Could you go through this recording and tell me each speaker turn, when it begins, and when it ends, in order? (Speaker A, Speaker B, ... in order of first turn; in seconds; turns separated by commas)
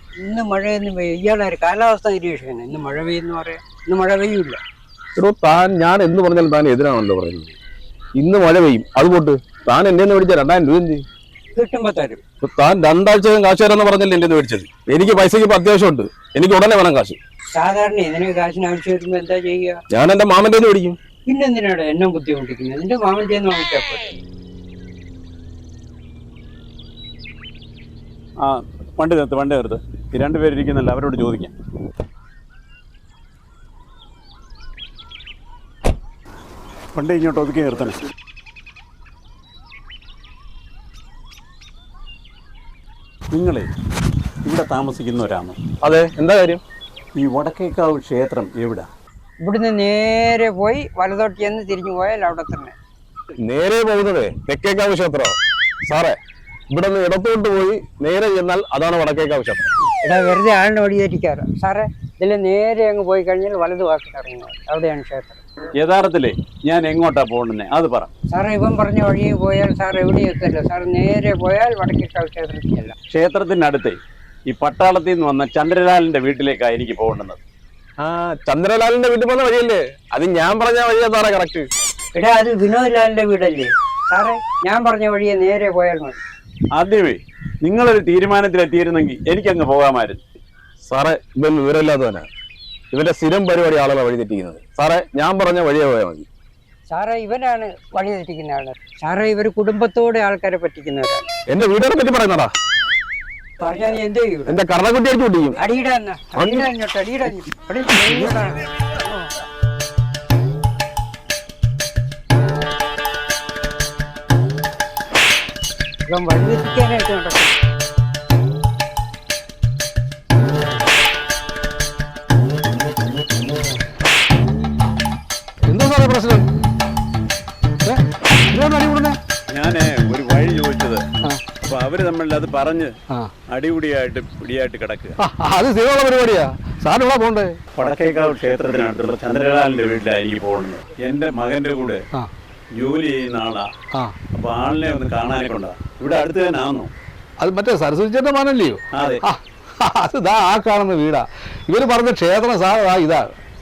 Speaker A: 0.2-4.6, Speaker B: 5.2-7.5, Speaker B: 8.2-11.0, Speaker A: 11.5-12.2, Speaker B: 12.4-17.2, Speaker A: 17.5-19.8, Speaker B: 19.9-21.0, Speaker A: 21.2-24.1, Speaker C: 28.4-31.5, Speaker C: 36.9-38.0, Speaker C: 43.3-43.7, Speaker C: 44.5-45.6, Speaker B: 45.8-46.6, Speaker C: 47.2-48.9, Speaker A: 49.4-52.8, Speaker B: 53.4-56.2, Speaker B: 56.7-59.7, Speaker A: 60.0-65.4, Speaker C: 65.8-68.1, Speaker A: 68.3-73.0, Speaker C: 73.1-77.4, Speaker B: 78.0-81.7, Speaker A: 82.1-86.2, Speaker C: 86.8-90.2, Speaker B: 90.9-92.3, Speaker B: 92.9-96.3, Speaker A: 96.9-101.3, Speaker B: 101.5-102.5, Speaker A: 103.6-104.6, Speaker B: 104.5-105.6, Speaker A: 105.5-109.3, Speaker B: 106.3-106.7, Speaker A: 116.0-117.5, Speaker D: 125.7-126.5, Speaker D: 127.8-129.2, Speaker C: 129.5-131.0, Speaker C: 131.6-132.9, Speaker C: 133.5-135.2, Speaker D: 135.2-137.5, Speaker C: 137.8-142.0, Speaker C: 142.8-143.7, Speaker C: 144.3-146.9, Speaker D: 147.4-153.3, Speaker C: 148.9-149.2